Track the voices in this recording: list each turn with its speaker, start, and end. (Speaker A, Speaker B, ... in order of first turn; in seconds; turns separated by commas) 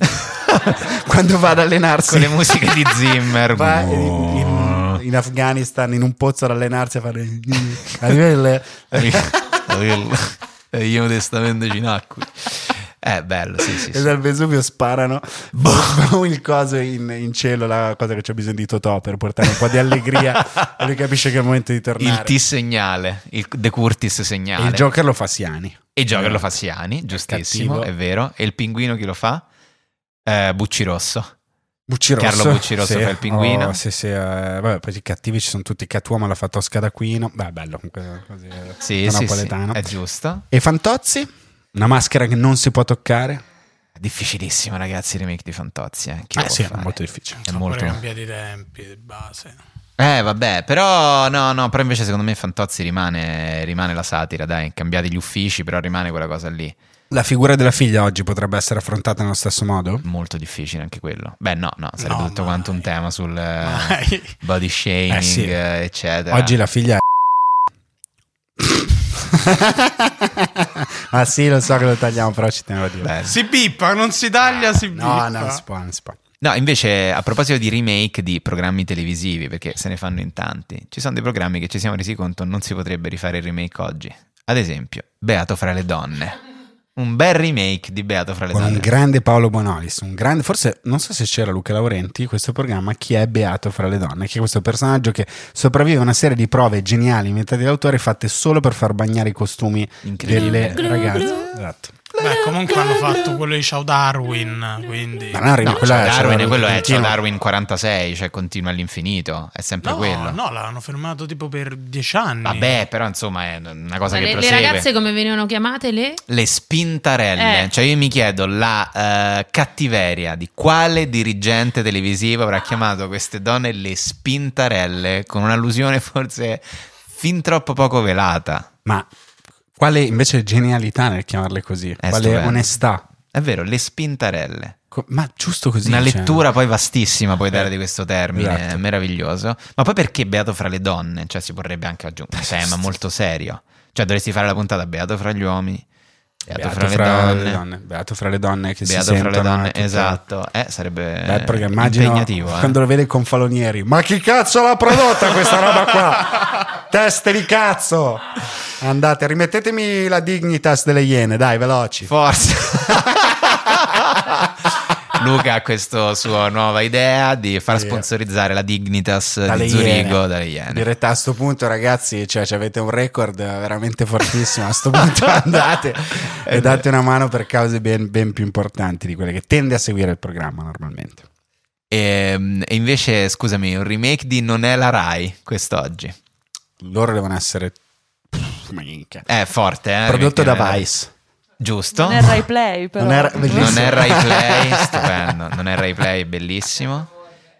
Speaker A: 0.2-0.8, Speaker B: 0.7-9.6, Speaker A: 2.1-4.3, Speaker A: 8.9-14.1, Speaker B: 13.7-22.4, Speaker A: 15.6-15.9, Speaker A: 22.0-24.9, Speaker B: 24.6-26.5, Speaker A: 25.9-29.4, Speaker B: 27.1-27.9, Speaker A: 30.2-31.3, Speaker B: 31.9-39.9, Speaker A: 32.2-33.8, Speaker A: 38.8-40.4, Speaker B: 40.5-43.4, Speaker A: 44.0-47.0, Speaker B: 46.3-47.5, Speaker A: 47.5-48.0, Speaker C: 47.5-49.6, Speaker A: 50.0-56.7, Speaker B: 57.1-60.0, Speaker A: 60.0-66.5, Speaker C: 62.0-62.8, Speaker C: 63.6-64.3, Speaker B: 65.1-65.5, Speaker B: 66.3-67.0, Speaker B: 68.6-73.1, Speaker A: 73.0-73.4, Speaker C: 73.2-75.6, Speaker B: 74.8-76.2, Speaker A: 76.4-86.3, Speaker A: 87.0-88.9, Speaker B: 88.5-101.9, Speaker A: 100.0-101.4, Speaker A: 102.2-103.2, Speaker C: 102.2-105.4, Speaker B: 105.3-107.2, Speaker A: 105.6-110.4, Speaker C: 109.8-112.8, Speaker A: 112.4-114.9, Speaker D: 114.1-116.2, Speaker A: 116.3-128.7, Speaker D: 117.4-117.7, Speaker B: 129.8-133.0, Speaker A: 132.0-132.7, Speaker A: 133.3-134.8, Speaker B: 134.9-136.4, Speaker A: 135.8-145.8, Speaker B: 138.3-138.8, Speaker B: 142.3-142.9, Speaker A: 146.4-147.6, Speaker B: 146.5-150.2, Speaker A: 148.8-152.8, Speaker B: 151.2-162.1, Speaker A: 162.1-164.4, Speaker B: 162.7-163.6, Speaker A: 165.1-170.8, Speaker B: 167.7-168.1, Speaker B: 169.4-181.2, Speaker A: 176.2-176.8, Speaker A: 181.9-186.2, Speaker B: 186.8-187.8, Speaker B: 188.3-189.2, Speaker A: 189.3-190.9, Speaker B: 190.1-191.1, Speaker A: 191.6-192.4, Speaker E: 191.9-194.2, Speaker B: 193.0-195.3, Speaker A: 193.4-197.1